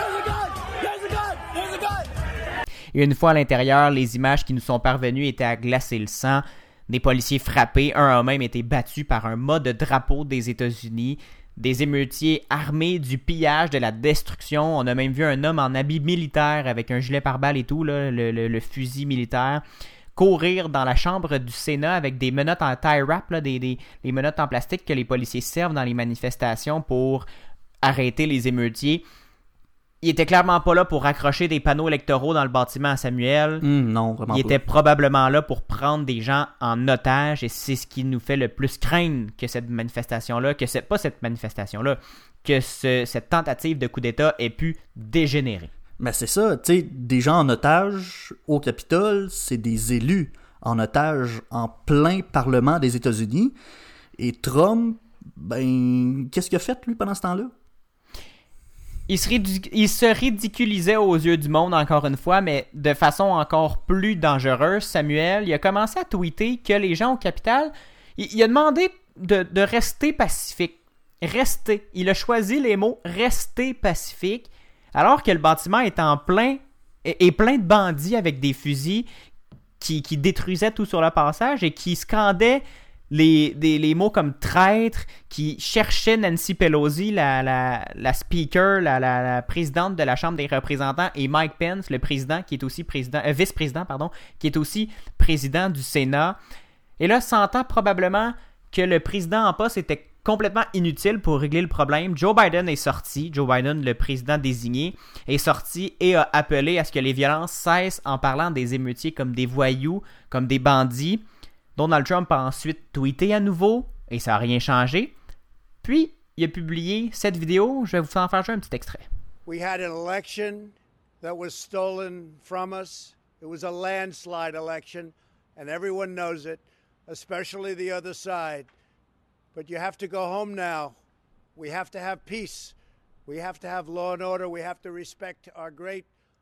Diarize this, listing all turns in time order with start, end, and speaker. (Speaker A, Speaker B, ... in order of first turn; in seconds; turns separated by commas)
Speaker A: 2.9-19.6, Speaker A: 20.1-27.2, Speaker A: 27.8-29.0, Speaker A: 30.0-33.6, Speaker B: 33.6-34.6, Speaker A: 34.3-45.7, Speaker B: 46.0-53.5, Speaker B: 54.2-57.5, Speaker A: 59.1-79.0, Speaker A: 79.8-96.4, Speaker A: 97.0-111.2, Speaker A: 111.8-115.1, Speaker A: 115.8-119.0, Speaker C: 119.5-128.7, Speaker C: 129.5-131.0, Speaker C: 131.6-132.7, Speaker C: 133.2-136.1